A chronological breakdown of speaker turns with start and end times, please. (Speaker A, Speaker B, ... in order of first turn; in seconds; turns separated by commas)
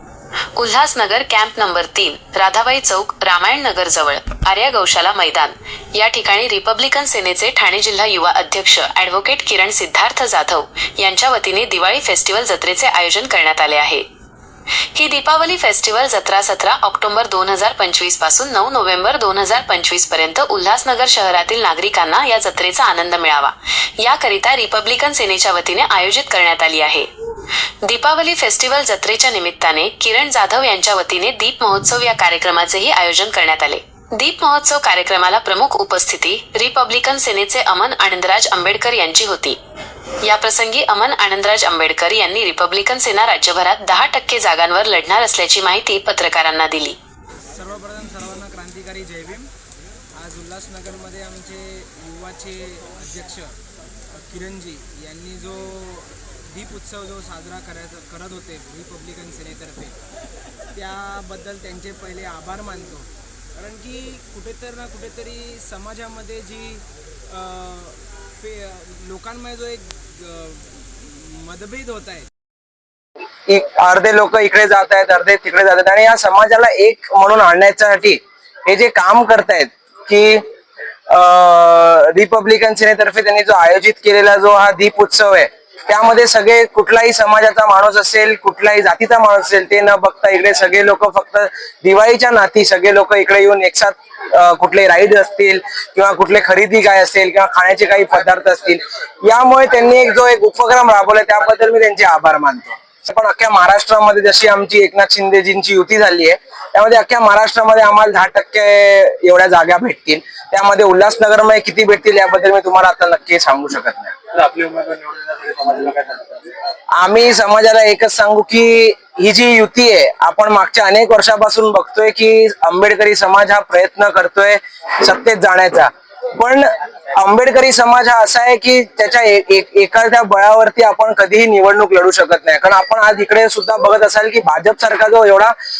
Speaker A: 0.6-14.1, Speaker A: 14.9-27.1, Speaker A: 27.8-39.6, Speaker A: 40.2-47.0, Speaker B: 47.6-49.5, Speaker C: 48.8-49.1, Speaker B: 50.2-53.5, Speaker B: 54.3-60.0, Speaker C: 56.9-58.1, Speaker C: 58.9-59.8, Speaker B: 60.8-63.1, Speaker C: 61.7-63.0, Speaker B: 63.6-72.2, Speaker C: 63.7-65.0, Speaker C: 65.7-66.5, Speaker C: 73.5-80.4, Speaker C: 81.1-116.3, Speaker C: 117.0-135.5